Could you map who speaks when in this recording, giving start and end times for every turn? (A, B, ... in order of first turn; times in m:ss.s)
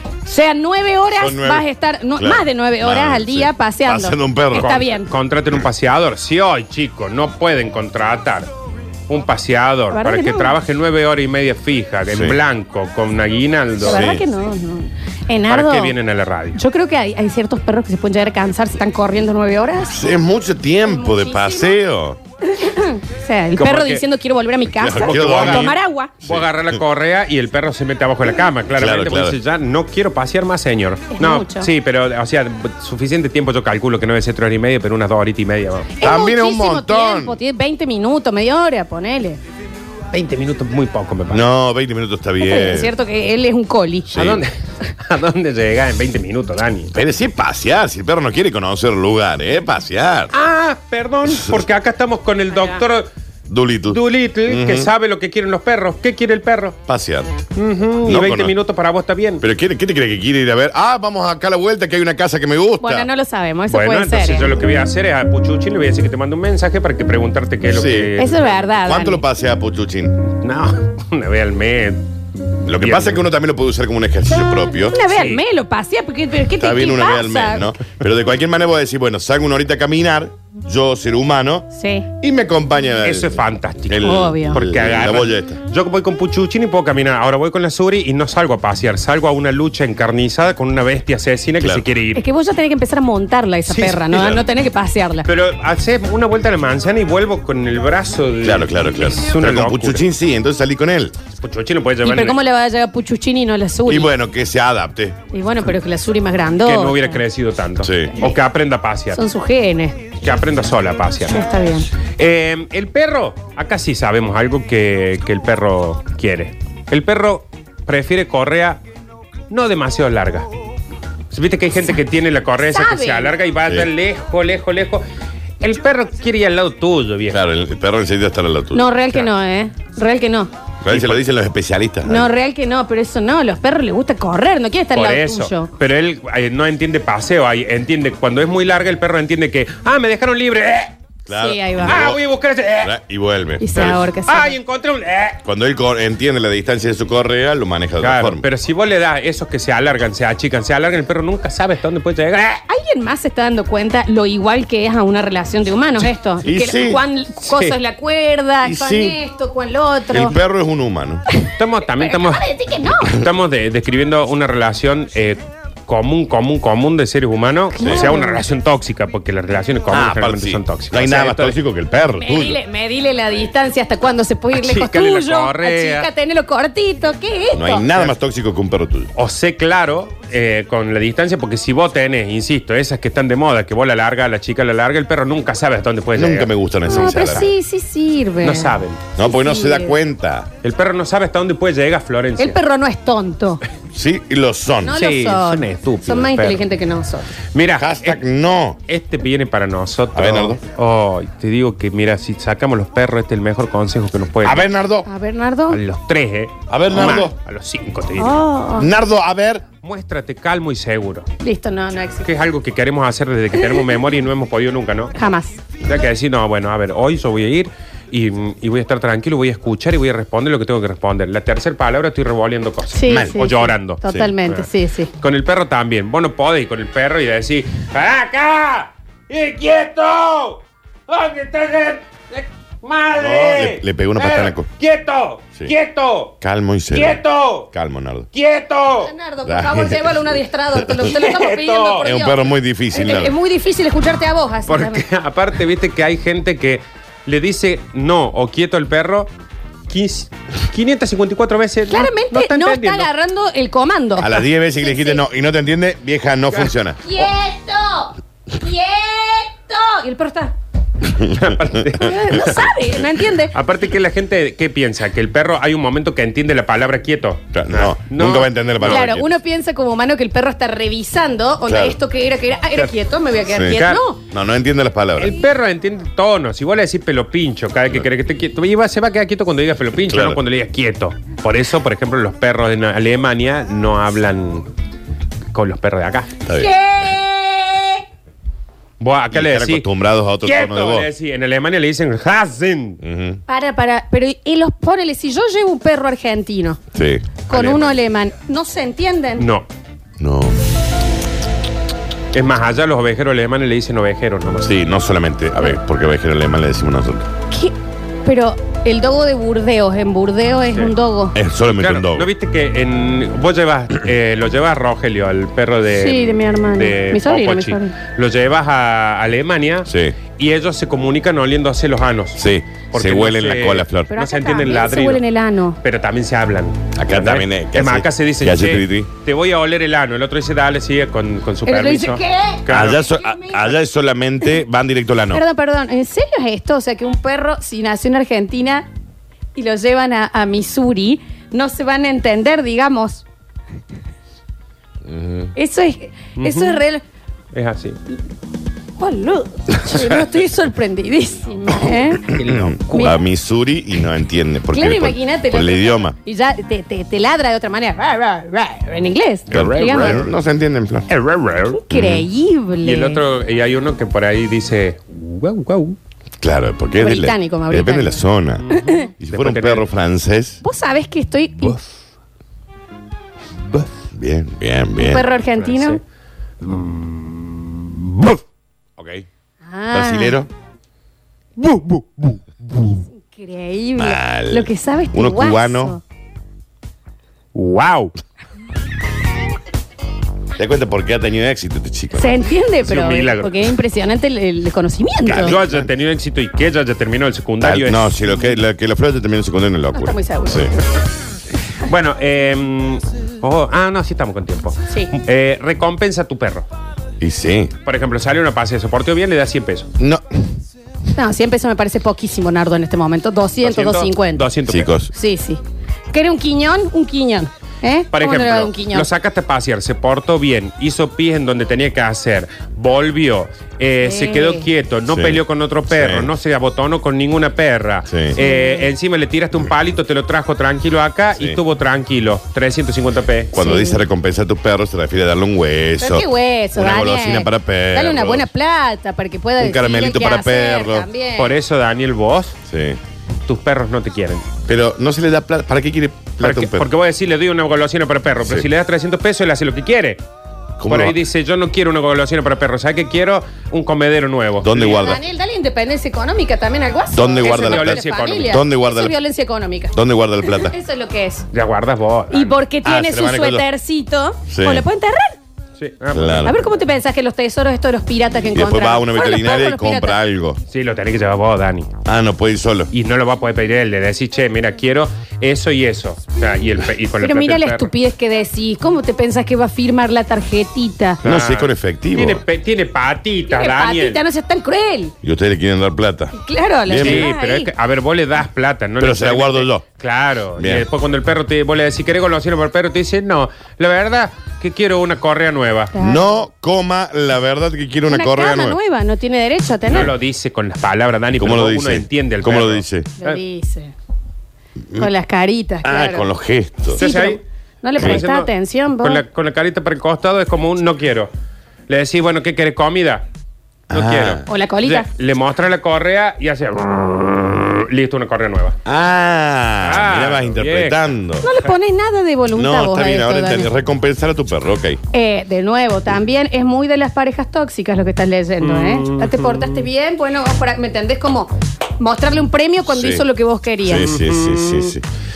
0:00.2-0:05.1 A
0:01.1-0:04.8 B
0:04.5-0:08.5 C
0:09.1-0:14.1 C
0:09.9-0:10.5 A
0:12.1-0:12.4 B
0:13.8-0:15.9 A
0:13.8-0:14.2 B
0:15.5-0:16.6 C
0:16.5-0:20.0 A
0:19.9-0:22.2 B
0:20.8-0:21.8 A
0:22.5-0:26.1 A
0:23.6-0:24.0 C
0:24.8-0:26.8 B
0:25.0-0:36.0 C
0:28.8-0:29.4 B
0:31.1-0:31.7 A
0:36.0-0:39.4 A
0:36.0-0:37.4 B
0:40.1-0:41.5 C
0:41.3-0:42.9 B
0:42.4-0:44.2 A
0:44.1-0:46.9 C
0:44.2-0:44.4 B
0:46.9-0:50.3 B
0:50.3-0:53.1 C
0:51.3-0:51.6 B
0:53.5-0:54.9 B
0:53.9-0:56.8 C
0:56.8-0:57.3 B
0:57.6-0:59.4 C
0:58.0-0:58.5 B
0:59.4-1:03.1 B
1:02.8-1:04.6 A
1:03.7-1:08.5 C
1:07.6-1:08.2 B
1:08.2-1:09.2 A
1:08.8-1:10.2 B
1:10.4-1:12.1 C
1:12.6-1:15.0 B
1:12.7-1:13.2 C
1:14.9-1:17.7 A
1:15.0-1:15.4 C
1:16.6-1:21.7 B
1:21.7-1:22.1 A
1:22.2-1:25.6 B
1:23.0-1:32.2 C
1:24.0-1:24.6 A
1:31.6-1:31.8 B
1:32.1-1:35.3 A
1:33.7-1:34.0 C
1:34.1-1:34.4 B
1:35.2-1:40.0 C
1:38.4-1:41.1 B
1:41.4-1:42.4 C
1:42.0-1:44.1 A
1:43.9-1:45.2 B
1:45.3-1:47.2 A
1:46.6-1:49.2 C
1:47.8-1:48.2 B
1:49.1-1:50.0 A
1:50.2-1:51.4 C
1:51.3-1:51.9 A
1:52.2-1:58.8 C
1:59.5-2:00.5 C
2:01.3-2:05.0 C
2:02.6-2:03.3 A
2:05.6-2:07.4 C
2:07.3-2:08.8 B
2:08.7-2:10.5 A
2:10.8-2:12.3 B
2:10.9-2:11.2 C
2:12.0-2:15.7 A
2:14.9-2:20.9 C
2:21.3-2:22.2 B
2:21.3-2:22.0 A
2:21.8-2:22.9 C
2:22.8-2:24.0 B
2:23.6-2:24.5 A
2:23.8-2:25.4 C
2:25.4-2:28.4 B
2:28.0-2:32.6 C
2:32.7-2:40.4 A
2:36.4-2:37.0 B
2:37.4-2:37.8 C
2:38.6-2:39.2 B
2:40.1-2:41.2 B
2:41.6-2:42.4 C
2:42.0-2:43.2 A
2:43.1-2:51.6 C
2:47.8-2:48.4 A
2:47.8-2:48.0 B
2:49.9-2:52.6 B
2:52.2-2:57.9 A
2:54.5-2:56.1 C
2:57.5-2:59.1 B
2:59.2-3:07.5 C
3:06.1-3:07.5 B
3:06.8-3:10.0 A
3:08.4-3:09.0 C
3:09.2-3:10.5 B
3:10.6-3:12.6 C
3:12.4-3:13.6 A
3:13.9-3:15.0 B
3:14.8-3:17.4 A
3:14.9-3:16.6 C
3:17.5-3:18.2 C
3:17.8-3:18.8 B
3:18.8-3:24.7 C
3:20.1-3:20.6 B
3:24.4-3:25.1 B
3:25.0-3:25.8 A
3:25.7-3:28.4 C
3:26.7-3:27.3 B
3:28.2-3:28.9 A
3:28.8-3:29.6 B
3:29.8-3:31.3 C
3:31.4-3:32.3 A
3:32.2-3:35.1 C
3:35.1-3:35.6 A
3:35.8-3:44.7 C
3:42.9-3:45.1 A
3:43.1-3:43.4 B
3:44.0-3:44.3 B
3:45.2-3:56.3 C
3:53.2-3:54.7 B
3:56.4-3:58.3 B
3:56.9-3:57.7 C
3:58.3-3:59.1 C
3:59.0-4:05.0 A
3:59.4-4:00.2 B
4:01.0-4:02.1 C
4:02.0-4:03.3 B
4:04.7-4:09.3 C
4:09.9-4:13.1 C
4:11.9-4:15.2 A
4:14.2-4:17.0 B
4:17.0-4:20.5 A
4:21.3-4:22.7 C
4:22.0-4:23.5 A
4:23.5-4:29.0 C
4:27.5-4:29.3 B
4:28.8-4:34.2 A
4:31.6-4:32.0 B
4:33.5-4:35.4 B
4:33.7-4:34.0 C
4:35.2-4:44.7 C
4:40.1-4:40.4 B
4:45.5-4:46.3 C
4:46.5-4:48.0 A
4:49.0-4:49.9 C
4:49.3-4:51.1 B
4:50.4-4:53.0 C
4:53.0-4:53.4 B
4:53.5-4:56.8 A
4:56.9-4:57.3 B
4:57.5-4:59.5 A
4:57.5-4:58.0 C
4:59.4-4:59.7 C
5:00.2-5:00.6 B
5:02.3-5:04.7 C
5:04.6-5:07.3 B
5:07.5-5:11.3 A
5:11.3-5:12.3 B
5:11.6-5:25.2 C
5:15.9-5:17.9 A
5:19.8-5:20.2 B
5:22.4-5:24.1 B
5:24.1-5:25.8 A
5:25.8-5:33.0 C
5:27.0-5:29.1 B
5:31.6-5:33.7 A
5:32.7-5:35.4 B
5:35.3-5:38.9 A
5:39.5-5:43.2 A
5:45.0-5:45.5 B
5:45.6-5:47.0 A
5:46.4-5:46.8 C
5:47.5-5:48.0 C
5:49.0-5:52.3 A
5:52.3-5:53.0 C
5:52.4-5:56.2 B
5:52.9-5:53.2 A
5:54.7-6:00.2 A
5:59.5-6:00.3 C
5:59.5-6:01.1 B
6:01.1-6:01.8 C
6:01.8-6:03.2 A
6:01.9-6:02.2 B
6:02.8-6:06.0 C
6:06.4-6:08.6 B
6:07.0-6:09.1 A
6:08.6-6:09.8 C
6:09.2-6:10.6 B
6:10.6-6:11.8 A
6:14.0-6:15.2 B
6:15.0-6:16.0 A
6:15.6-6:16.0 C
6:16.6-6:18.4 C
6:19.0-6:19.2 B
6:19.6-6:20.4 A
6:19.9-6:20.5 B
6:21.6-6:22.9 C
6:23.2-6:26.0 A
6:24.0-6:26.0 B
6:27.5-6:28.1 C
6:30.6-6:32.4 B
6:32.2-6:35.6 A
6:32.8-6:33.7 C
6:35.2-6:35.9 B
6:35.3-6:38.2 C
6:37.6-6:40.7 B
6:39.9-6:40.8 A
6:41.8-6:46.7 C
6:47.2-6:47.7 B
6:47.8-6:49.9 C
6:50.0-6:50.2 B
6:51.1-6:54.5 A
6:53.6-6:54.9 C
6:54.7-6:55.1 B
6:55.1-6:55.6 A
6:56.1-6:59.1 A
6:58.1-7:13.5 C
7:04.0-7:04.6 A
7:05.1-7:06.3 B
7:08.1-7:08.4 B
7:08.4-7:08.9 A
7:13.5-7:18.4 B
7:13.5-7:14.0 A
7:16.0-7:21.5 A
7:19.6-7:21.1 B
7:21.4-7:22.6 C
7:22.7-7:23.0 B
7:23.4-7:24.5 C
7:24.7-7:26.9 B
7:26.4-7:30.2 C
7:28.4-7:28.7 B
7:30.8-7:31.2 B
7:30.8-7:35.0 C
7:34.6-7:35.2 B
7:34.8-7:41.5 A
7:37.1-7:39.2 B
7:37.4-7:38.6 C
7:39.9-7:40.7 B
7:41.5-7:42.6 C
7:42.3-7:45.4 A
7:42.8-7:43.7 B
7:44.5-7:44.8 B
7:45.8-7:46.6 C
7:46.1-7:46.6 B
7:46.4-7:50.2 A
7:48.5-7:50.6 B
7:50.7-7:51.9 C
7:52.0-7:52.9 B
7:52.9-7:57.9 C
7:57.2-8:01.2 A
8:01.2-8:04.2 C
8:01.2-8:02.4 B
8:03.5-8:05.1 A
8:05.2-8:06.3 B
8:06.3-8:07.7 A
8:06.8-8:07.3 B
8:07.0-8:15.9 C
8:09.0-8:09.8 B
8:10.6-8:10.8 B
8:15.9-8:16.4 A
8:16.0-8:18.8 B
8:18.1-8:20.1 A
8:19.9-8:23.4 C
8:21.3-8:23.1 B
8:23.2-8:23.9 A
8:25.0-8:26.3 A
8:25.8-8:27.0 B
8:26.9-8:27.4 C
8:27.0-8:29.2 A
8:28.0-8:31.3 C
8:31.9-8:33.2 C
8:33.9-8:34.4 B
8:33.9-8:38.8 C
8:34.5-8:35.1 A
8:38.8-8:41.5 B
8:39.8-8:41.0 C
8:41.4-8:43.7 A
8:42.5-8:45.0 B
8:45.1-8:54.1 A
8:48.6-8:49.8 C
8:52.9-8:53.2 B
8:53.8-8:55.0 B
8:54.0-8:54.9 C